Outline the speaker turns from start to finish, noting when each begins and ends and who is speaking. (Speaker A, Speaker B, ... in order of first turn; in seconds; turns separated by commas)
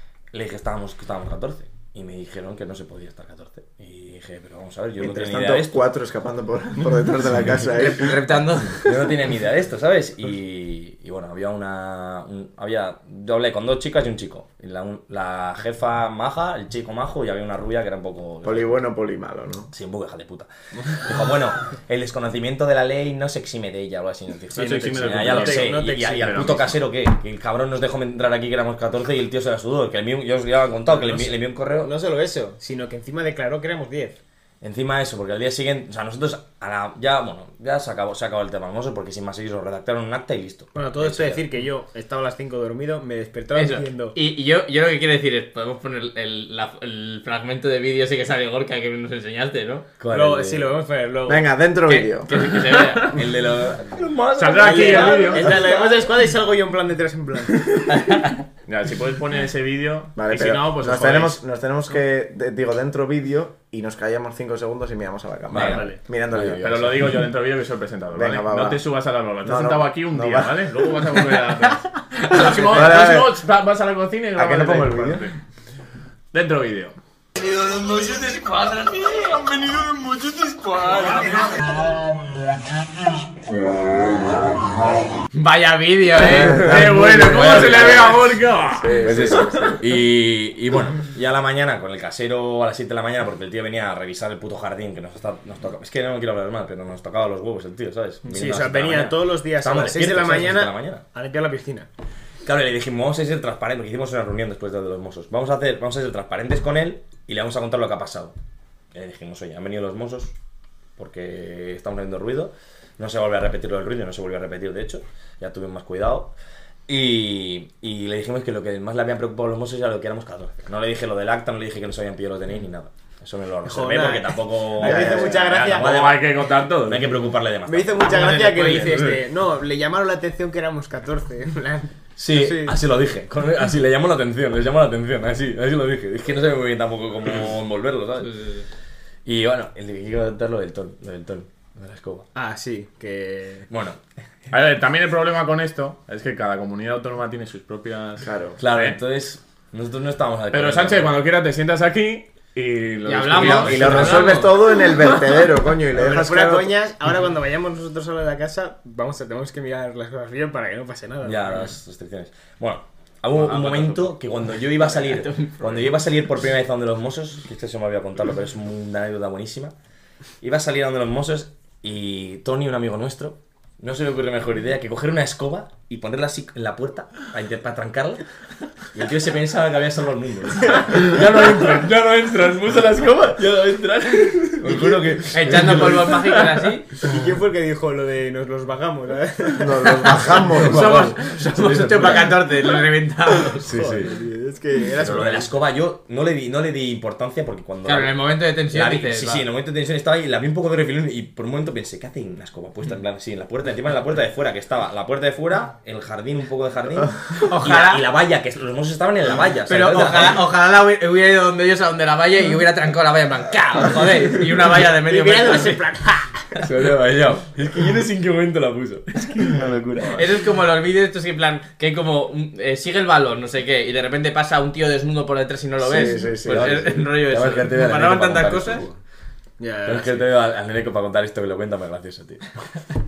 Speaker A: 0.3-5.8, Speaker B: 5.0-8.2, Speaker C: 7.7-9.0, Speaker A: 8.8-18.8, Speaker B: 18.4-19.7, Speaker A: 19.7-31.9, Speaker D: 24.5-26.7, Speaker E: 25.1-26.6, Speaker E: 30.9-34.2, Speaker A: 34.6-41.5, Speaker E: 40.7-44.1, Speaker C: 43.5-49.9, Speaker A: 50.0-50.7, Speaker E: 50.1-51.5, Speaker B: 51.3-52.3, Speaker C: 51.9-53.2, Speaker A: 53.0-55.7, Speaker D: 54.4-55.5, Speaker E: 54.5-57.7, Speaker D: 58.7-61.4, Speaker B: 60.1-67.2, Speaker A: 65.5-66.8, Speaker E: 65.6-66.0, Speaker D: 66.6-75.3, Speaker B: 68.1-68.8, Speaker B: 69.4-70.7, Speaker B: 72.3-73.4, Speaker B: 74.3-75.3, Speaker D: 76.3-77.0, Speaker D: 77.5-81.6, Speaker C: 85.3-87.7, Speaker B: 86.2-88.1, Speaker D: 86.4-89.7, Speaker A: 87.3-88.1, Speaker B: 88.8-89.8, Speaker A: 89.0-101.0, Speaker E: 98.2-101.9, Speaker A: 102.4-108.3, Speaker A: 108.9-110.3, Speaker A: 111.0-116.3, Speaker A: 116.9-128.8, Speaker E: 123.6-126.2, Speaker B: 124.8-125.4, Speaker D: 125.6-127.1, Speaker E: 127.7-132.8, Speaker C: 128.2-128.9, Speaker A: 132.2-138.5, Speaker A: 139.2-142.3, Speaker E: 142.3-143.7, Speaker A: 143.7-144.0, Speaker D: 144.5-149.0, Speaker B: 148.2-148.6, Speaker A: 148.6-151.2, Speaker D: 150.5-154.4, Speaker C: 153.1-154.6, Speaker B: 153.4-156.7, Speaker E: 155.9-161.7, Speaker A: 161.2-169.7, Speaker C: 163.3-164.1, Speaker C: 164.8-165.7, Speaker A: 170.4-178.2, Speaker A: 178.9-186.4, Speaker C: 185.3-186.9, Speaker E: 187.0-190.3, Speaker B: 189.6-191.2, Speaker C: 190.5-193.7, Speaker A: 190.6-192.4, Speaker A: 193.6-194.1, Speaker E: 193.6-195.5, Speaker A: 194.9-210.4, Speaker C: 197.8-199.5, Speaker C: 207.4-208.1, Speaker C: 209.7-215.8, Speaker E: 215.1-216.6, Speaker A: 216.6-220.1, Speaker B: 219.5-220.2, Speaker C: 220.1-228.9, Speaker B: 225.8-227.0, Speaker A: 226.5-229.0, Speaker E: 229.6-230.3, Speaker A: 229.8-232.6